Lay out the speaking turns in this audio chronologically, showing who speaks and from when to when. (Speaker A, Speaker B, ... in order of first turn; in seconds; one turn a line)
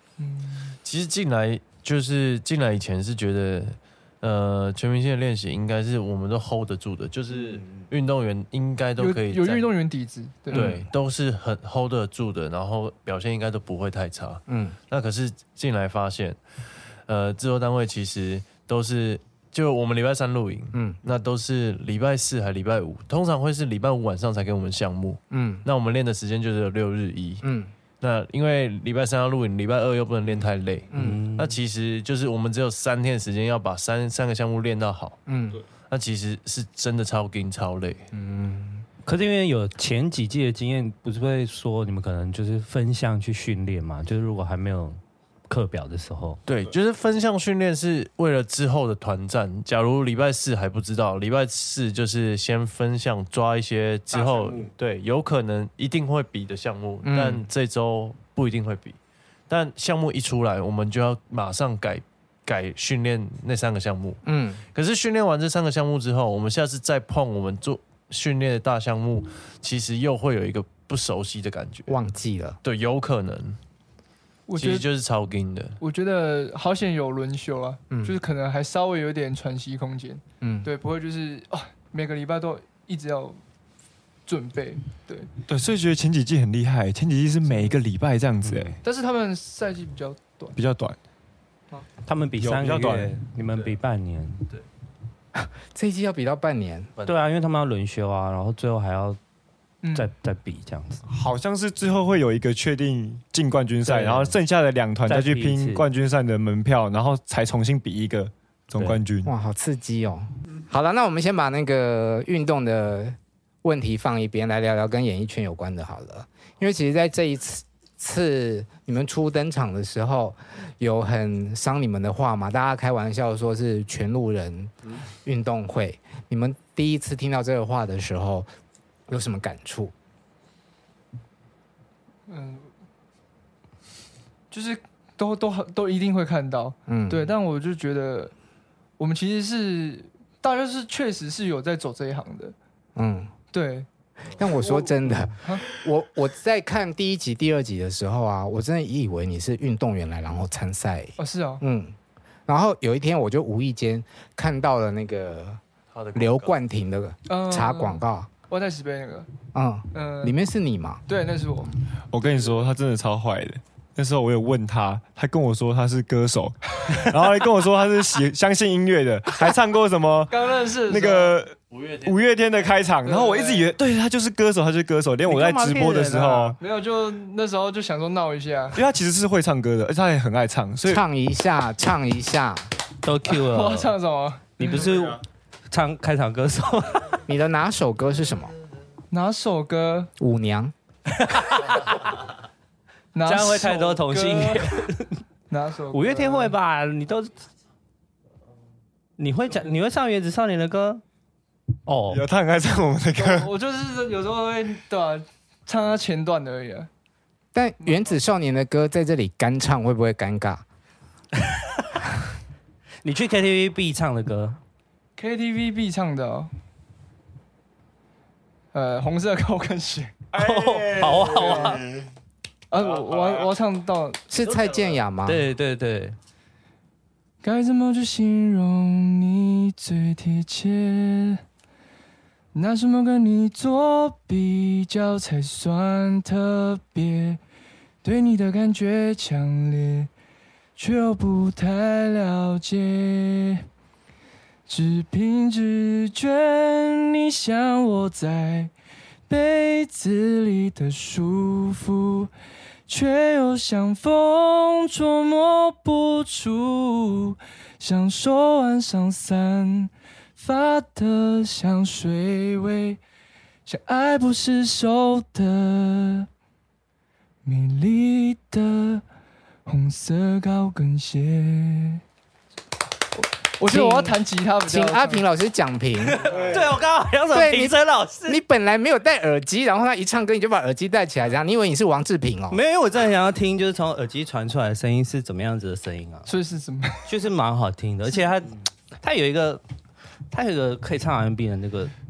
Speaker A: 0.2-0.8
Speaker B: 0.8-9.7
Speaker A: 9.0-10.8
Speaker B: 10.5-16.4
Speaker C: 10.5-10.8
Speaker C: 14.5-14.8
Speaker B: 17.1-27.5
Speaker C: 20.7-21.0
Speaker C: 25.3-25.7
Speaker C: 27.4-27.7
Speaker B: 28.0-35.2
Speaker C: 30.9-31.2
Speaker D: 30.9-31.6
Speaker C: 35.3-35.6
Speaker B: 35.9-38.1
Speaker C: 38.1-38.9
Speaker D: 39.1-46.4
Speaker B: 46.5-59.0
Speaker E: 54.1-54.7
Speaker C: 57.0-57.5
Speaker B: 59.5-64.2
Speaker C: 64.2-64.6
Speaker B: 64.7-72.0
Speaker C: 71.9-72.6
Speaker B: 72.6-73.6
Speaker A: 74.5-74.9
Speaker B: 74.6-75.8
Speaker A: 75.8-83.4
Speaker C: 77.9-78.2
Speaker C: 80.4-80.7
Speaker A: 84.3-85.3
Speaker E: 85.5-88.8
Speaker A: 87.5-87.8
Speaker D: 88.4-88.8
Speaker A: 88.8-90.5
Speaker E: 90.5-91.0
Speaker D: 92.0-94.5
Speaker E: 92.4-93.2
Speaker C: 95.4-96.9
Speaker D: 97.0-99.2
Speaker A: 99.8-100.1
Speaker D: 100.0-101.0
Speaker E: 101.1-109.3
Speaker D: 103.8-104.3
Speaker D: 105.1-105.9
Speaker C: 109.2-128.5
Speaker C: 129.1-129.9
Speaker A: 132.3-132.7
Speaker A: 134.5-138.3
Speaker C: 136.9-137.3
Speaker A: 139.0-142.6
Speaker C: 143.0-143.3
Speaker A: 143.5-143.9
Speaker C: 144.3-155.6
Speaker A: 144.4-145.7
Speaker A: 151.2-151.6
Speaker B: 155.9-156.6
Speaker C: 156.2-158.3
Speaker A: 157.3-159.3
Speaker C: 159.5-161.0
Speaker A: 159.9-160.4
Speaker A: 161.1-161.8
Speaker E: 162.1-176.6
Speaker A: 170.3-171.4
Speaker B: 171.7-172.7
Speaker A: 173.1-173.7
Speaker D: 175.3-176.6
Speaker A: 176.6-178.8
Speaker E: 178.7-181.0
Speaker C: 180.8-182.7
Speaker D: 183.0-183.9
Speaker A: 183.4-184.9
Speaker D: 184.6-187.2
Speaker E: 184.7-185.2
Speaker C: 187.3-188.6
Speaker A: 189.1-190.1
Speaker C: 190.2-190.7
Speaker D: 191.1-192.1
Speaker A: 193.2-194.8
Speaker D: 193.2-195.2
Speaker A: 195.5-196.6
Speaker D: 195.9-197.4
Speaker D: 199.2-201.0
Speaker D: 201.9-202.2
Speaker E: 202.1-203.5
Speaker A: 203.2-206.9
Speaker C: 207.5-210.6
Speaker A: 207.8-208.1
Speaker D: 211.4-212.0
Speaker D: 213.0-214.6
Speaker A: 215.2-216.5
Speaker A: 218.7-220.2
Speaker E: 220.3-222.1
Speaker D: 220.4-221.8
Speaker A: 221.4-221.7
Speaker A: 222.7-224.2
Speaker E: 222.8-223.5
Speaker C: 224.3-225.5
Speaker B: 224.4-225.0
Speaker D: 225.3-226.2
Speaker A: 227.4-231.4
Speaker A: 232.5-237.4
Speaker A: 238.0-240.1
Speaker A: 240.8-243.7
Speaker A: 244.7-248.7
Speaker A: 249.3-252.3
Speaker A: 252.9-263.0
Speaker A: 263.7-266.3
Speaker A: 267.4-269.0
Speaker A: 269.7-272.0
Speaker A: 273.6-275.2
Speaker C: 273.6-276.3
Speaker E: 276.3-276.7
Speaker D: 276.3-278.4
Speaker C: 277.3-282.6
Speaker D: 282.5-286.3
Speaker A: 286.3-287.1
Speaker D: 287.1-289.6
Speaker D: 290.3-291.9